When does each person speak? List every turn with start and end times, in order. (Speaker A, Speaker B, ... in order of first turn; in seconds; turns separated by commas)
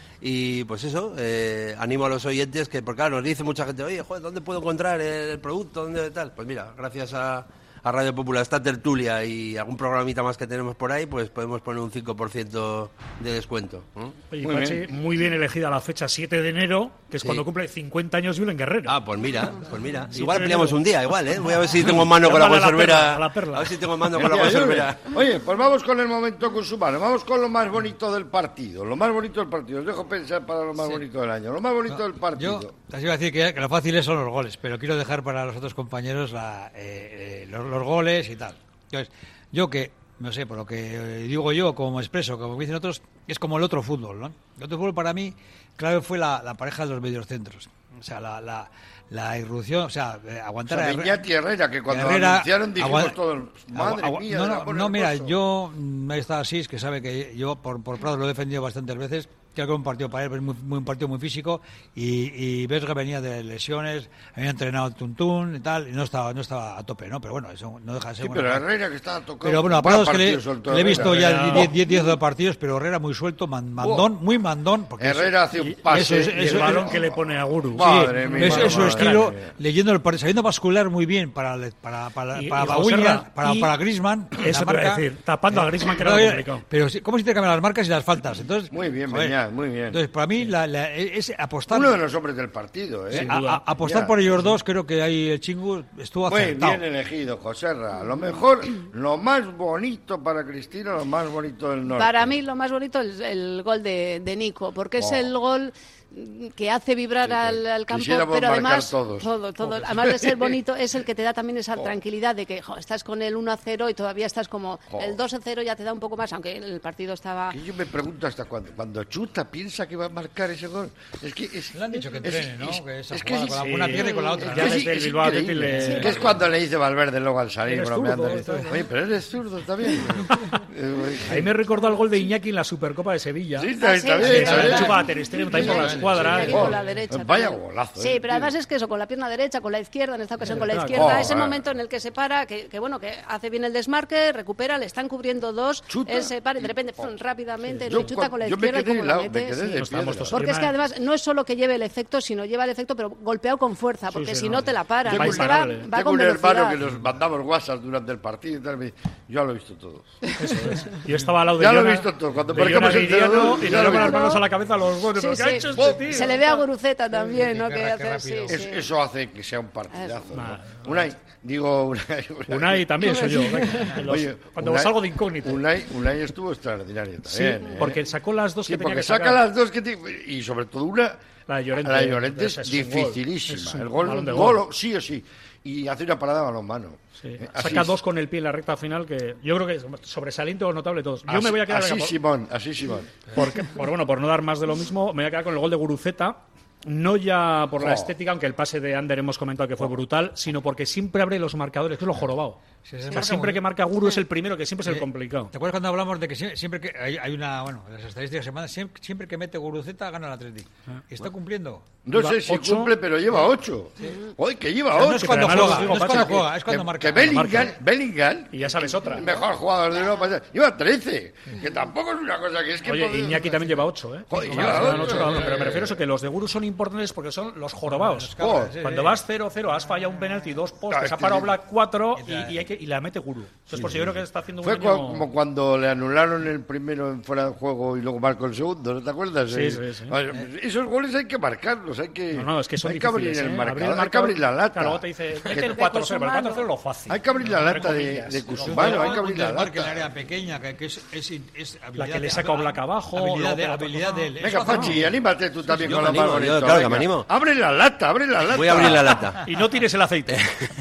Speaker A: 0.2-14.1, Speaker B: 14.3-18.9, Speaker C: 14.4-14.8, Speaker A: 18.9-25.1, Speaker B: 20.1-20.8, Speaker B: 21.8-23.8, Speaker C: 24.1-32.7, Speaker D: 31.9-51.3, Speaker C: 50.7-55.3, Speaker D: 51.9-53.2, Speaker D: 53.7-68.7, Speaker C: 68.2-71.7, Speaker D: 69.4-75.3, Speaker B: 70.9-71.7, Speaker C: 73.8-74.1, Speaker C: 75.0-77.1, Speaker B: 75.6-79.3, Speaker D: 75.9-76.9, Speaker C: 77.7-79.5, Speaker D: 77.8-89.4, Speaker B: 82.3-83.7, Speaker B: 84.3-86.6, Speaker C: 88.7-90.0, Speaker D: 89.9-92.0, Speaker C: 91.7-94.2, Speaker B: 93.1-93.6, Speaker D: 93.1-96.8, Speaker C: 96.2-102.3, Speaker E: 101.9-117.6, Speaker C: 105.0-105.3, Speaker C: 107.2-110.5, Speaker C: 114.9-115.2, Speaker C: 117.5-131.5, Speaker D: 121.7-124.9, Speaker B: 123.6-126.2, Speaker E: 124.0-124.4, Speaker D: 125.6-126.2, Speaker E: 125.8-126.1, Speaker B: 127.7-128.8, Speaker B: 130.3-130.6, Speaker B: 131.3-136.8, Speaker C: 133.6-138.5, Speaker E: 133.8-156.8, Speaker D: 134.2-136.7, Speaker B: 140.4-141.3, Speaker C: 140.9-141.6, Speaker C: 145.9-147.1, Speaker C: 147.8-150.4, Speaker B: 149.8-150.7, Speaker B: 154.1-155.9, Speaker C: 155.0-160.3, Speaker B: 160.4-166.6, Speaker C: 161.6-164.4, Speaker D: 162.5-162.8, Speaker E: 163.7-164.4, Speaker E: 165.2-168.9, Speaker C: 165.8-166.2, Speaker D: 167.2-168.6, Speaker C: 168.5-173.3, Speaker B: 170.3-171.1, Speaker B: 172.5-175.6, Speaker E: 173.0-173.9, Speaker C: 173.9-178.0, Speaker B: 177.8-179.4, Speaker C: 178.7-181.2, Speaker B: 181.5-184.6, Speaker C: 181.8-187.9, Speaker B: 187.2-192.2, Speaker C: 191.3-193.1, Speaker B: 193.3-202.6, Speaker C: 197.8-198.1, Speaker D: 202.8-203.6, Speaker B: 203.1-205.5, Speaker D: 204.8-211.8, Speaker C: 212.0-226.0, Speaker B: 212.1-212.9, Speaker D: 214.9-217.7, Speaker B: 215.1-216.5, Speaker B: 217.2-217.7, Speaker B: 218.5-219.3, Speaker B: 222.8-235.3, Speaker D: 224.3-225.8, Speaker D: 227.8-229.2, Speaker C: 228.4-228.7, Speaker C: 230.9-231.6, Speaker D: 232.1-232.7, Speaker C: 233.7-245.7, Speaker B: 239.5-240.1, Speaker B: 242.3-249.2, Speaker E: 245.5-246.7, Speaker C: 247.1-250.0, Speaker D: 248.6-256.4, Speaker B: 252.0-255.0, Speaker C: 254.4-259.2, Speaker A: 255.8-257.3, Speaker A: 258.5-259.5, Speaker B: 259.4-260.5, Speaker A: 260.3-260.6